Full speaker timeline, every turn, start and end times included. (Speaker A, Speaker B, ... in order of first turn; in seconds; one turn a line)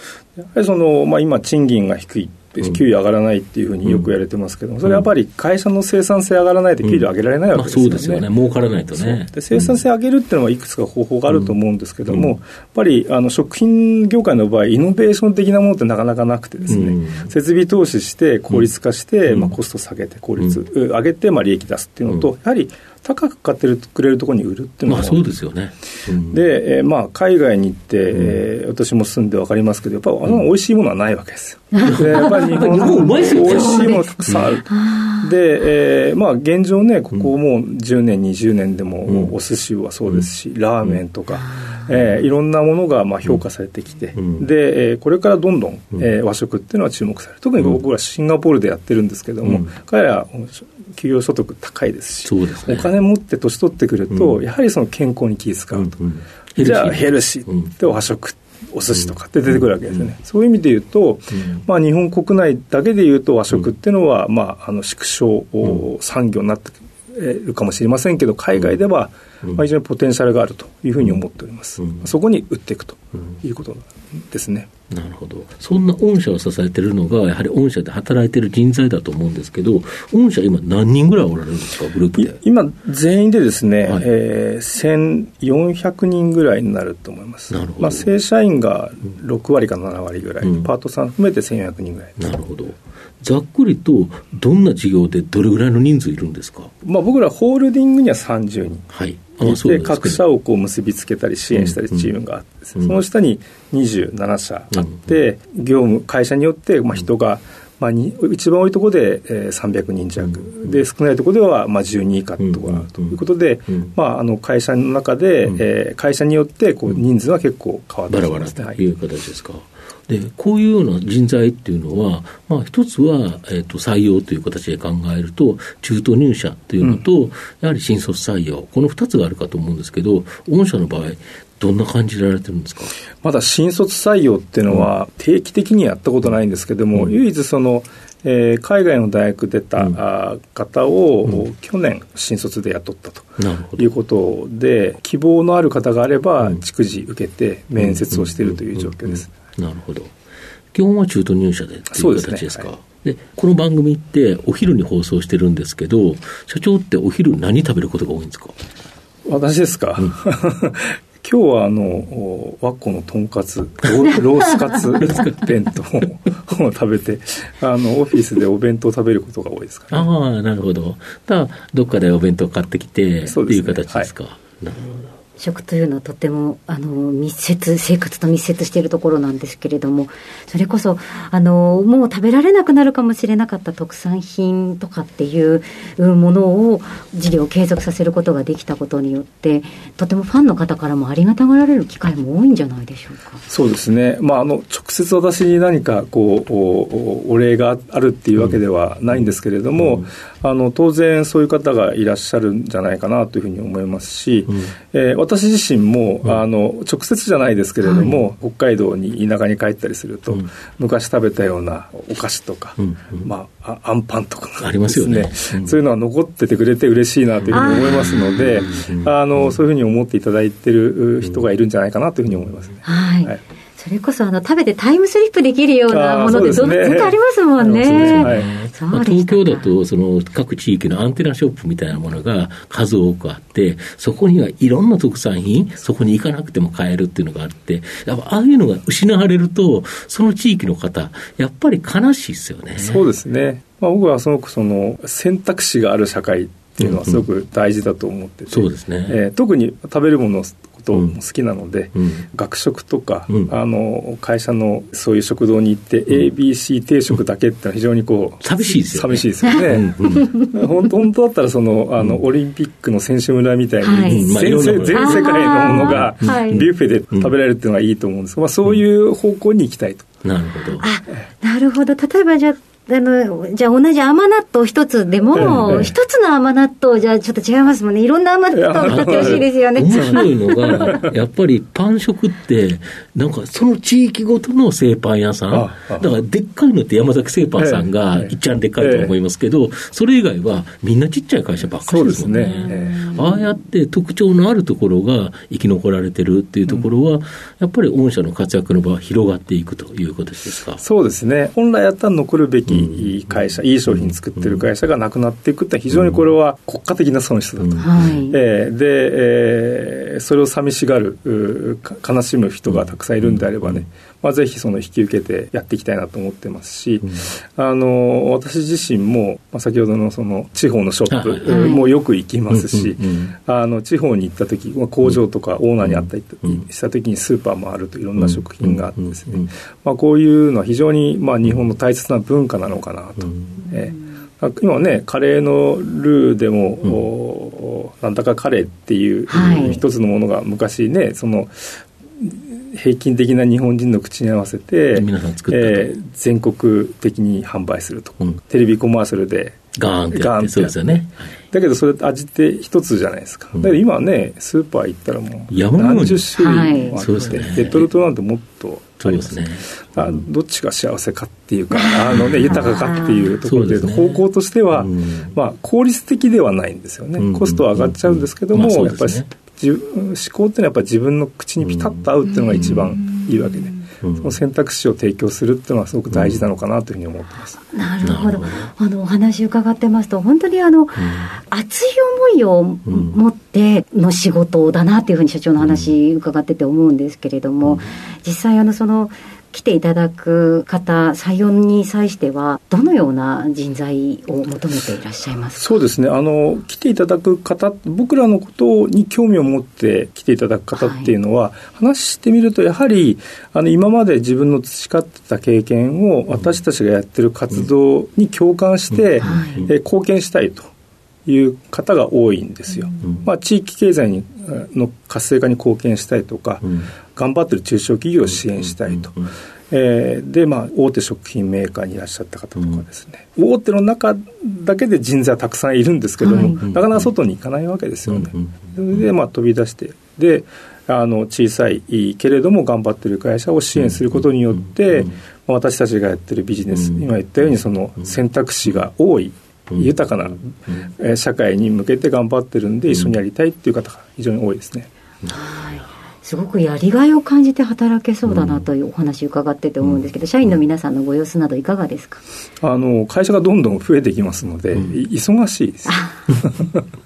Speaker A: 0.4-8.3
Speaker B: 6.8-9.6
Speaker A: 8.9-25.2
Speaker B: 16.7-17.3
Speaker B: 24.9-26.4
Speaker A: 26.2-55.9
Speaker C: 31.7-35.4
Speaker B: 31.8-34.5
Speaker C: 41.4-41.8
Speaker B: 44.1-44.5
Speaker B: 49.4-49.7
Speaker B: 52.2-52.9
Speaker B: 55.7-57.8
Speaker A: 56.6-74.7
Speaker B: 71.8-72.0
Speaker B: 74.9-82.4
Speaker A: 82.2-92.2
Speaker B: 87.5-88.1
Speaker B: 90.4-90.7
Speaker B: 92.2-96.7
Speaker A: 96.8-98.9
Speaker B: 98.9-100.2
Speaker A: 99.4-118.8
Speaker B: 101.5-102.1
Speaker B: 104.7-105.0
Speaker B: 112.4-113.2
Speaker B: 118.1-132.9
Speaker A: 133.2-149.3
Speaker B: 143.4-143.9
Speaker B: 147.8-150.1
Speaker B: 150.7-158.5
Speaker A: 151.9-152.7
Speaker A: 159.2-170.1
Speaker B: 165.0-165.5
Speaker B: 169.9-175.1
Speaker A: 173.2-174.1
Speaker C: 175.4-193.4
Speaker A: 193.5-223.4
Speaker C: 207.8-208.2
Speaker B: 212.8-213.3
Speaker B: 214.6-215.8
Speaker B: 217.4-219.1
Speaker C: 217.5-218.3
Speaker C: 222.8-229.7
Speaker A: 225.9-228.5
Speaker B: 227.8-243.0
Speaker A: 242.8-270.1
Speaker B: 246.8-247.2
Speaker B: 248.5-249.2
Speaker B: 252.0-252.2
Speaker B: 258.4-260.4
Speaker C: 260.1-260.5
Speaker C: 263.8-264.3
Speaker B: 264.1-267.3
Speaker C: 264.9-266.6
Speaker B: 270.2-270.9
Speaker C: 270.8-281.0
Speaker A: 275.3-275.9
Speaker B: 275.4-275.9
Speaker A: 278.5-281.1
Speaker B: 278.8-300.8
Speaker A: 285.5-286.1
Speaker A: 287.6-289.1
Speaker A: 291.9-293.1
Speaker C: 292.7-293.2
Speaker A: 300.8-377.6
Speaker B: 302.7-303.1
Speaker B: 303.9-304.6
Speaker B: 305.9-306.2
Speaker B: 307.6-308.2
Speaker C: 307.8-308.4
Speaker B: 312.7-313.8
Speaker B: 321.1-321.7
Speaker C: 321.4-321.9
Speaker B: 322.5-323.3
Speaker B: 325.8-326.6
Speaker B: 328.2-329.5
Speaker B: 333.3-333.6
Speaker C: 339.3-339.8
Speaker B: 339.3-339.8
Speaker B: 344.9-345.9
Speaker B: 349.8-351.4
Speaker B: 355.5-357.9
Speaker C: 356.3-357.0
Speaker B: 359.0-360.2
Speaker C: 361.7-363.4
Speaker B: 362.1-362.6
Speaker B: 363.4-365.3
Speaker B: 367.2-369.3
Speaker B: 371.6-371.9
Speaker C: 372.3-373.7
Speaker B: 372.5-372.9
Speaker B: 374.0-374.3
Speaker B: 376.1-376.4
Speaker C: 377.7-395.7
Speaker B: 378.0-378.7
Speaker B: 380.9-381.3
Speaker B: 382.9-383.2
Speaker B: 385.6-385.9
Speaker B: 387.6-387.9
Speaker A: 395.6-410.7
Speaker C: 400.7-401.1
Speaker B: 409.2-409.7
Speaker C: 409.2-409.7
Speaker A: 411.2-419.1
Speaker B: 413.0-413.3
Speaker B: 418.9-419.3
Speaker A: 419.7-444.9
Speaker C: 426.2-426.6
Speaker B: 426.6-427.0
Speaker B: 428.1-429.0
Speaker B: 433.9-435.1
Speaker B: 436.7-437.0
Speaker C: 445.3-452.2
Speaker B: 448.2-448.6
Speaker A: 452.6-456.8
Speaker C: 455.9-456.2